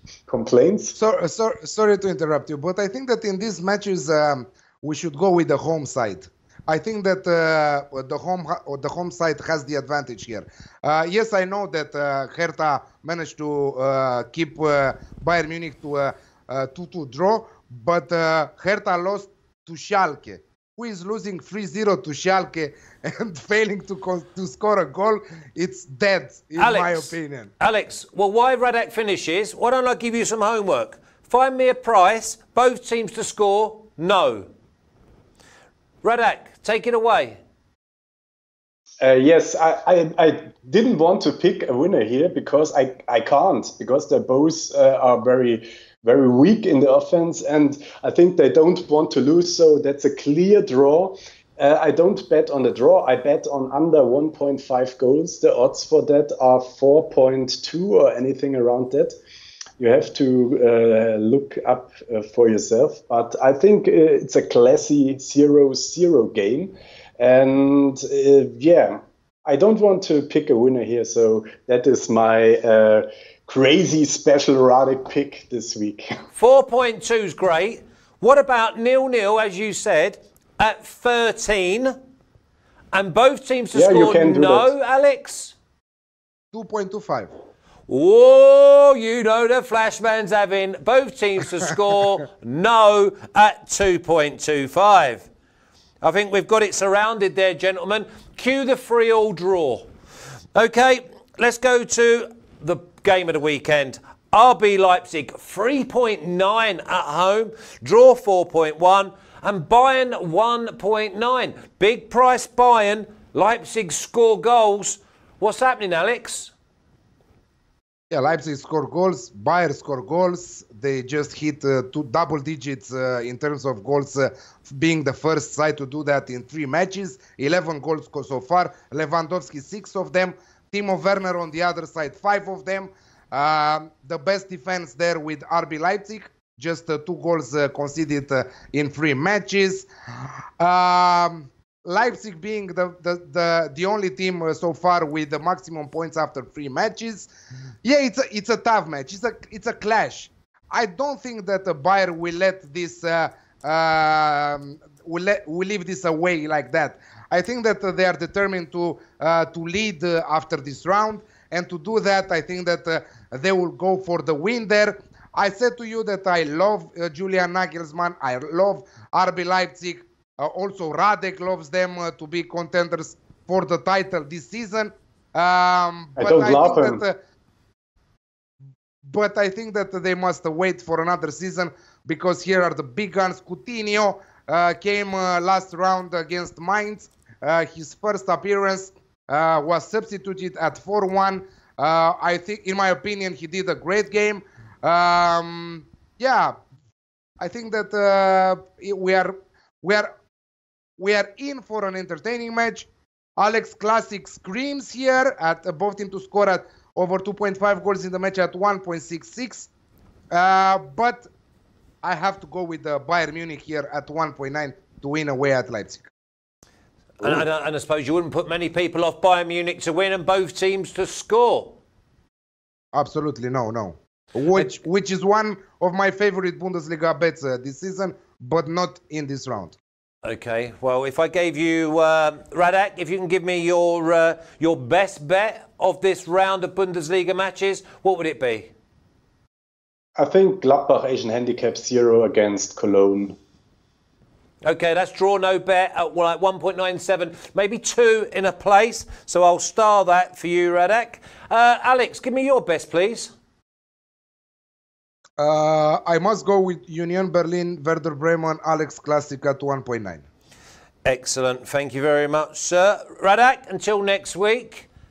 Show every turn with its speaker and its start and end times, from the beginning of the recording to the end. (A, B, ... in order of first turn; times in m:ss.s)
0:00.3-0:01.0 A
0:01.0-0:27.5 B
0:26.6-0:34.5 C
0:36.0-0:37.4 C
0:39.0-0:59.1 A
0:59.8-1:09.0 A
1:09.5-1:16.1 A
1:16.4-1:21.9 C
1:22.9-1:25.6 C
1:23.7-1:24.7 A
1:26.5-1:27.3 B
1:27.9-1:35.3 C
1:36.0-1:39.9 C
1:40.6-1:56.5 C
1:58.1-2:19.9 B
2:20.6-2:27.3 B
2:27.8-2:57.2 B
2:56.2-2:57.0 A
2:59.0-3:16.5 B
3:17.4-3:20.1 B
3:21.0-3:29.7 B
3:30.3-3:31.3 B
3:32.0-3:36.1 B
3:37.2-3:41.8 C
3:42.9-3:49.8 B
3:50.2-3:58.7 C
4:00.2-4:03.4 A
4:04.6-4:13.3 C
4:15.4-4:20.2 B
4:21.0-4:24.9 C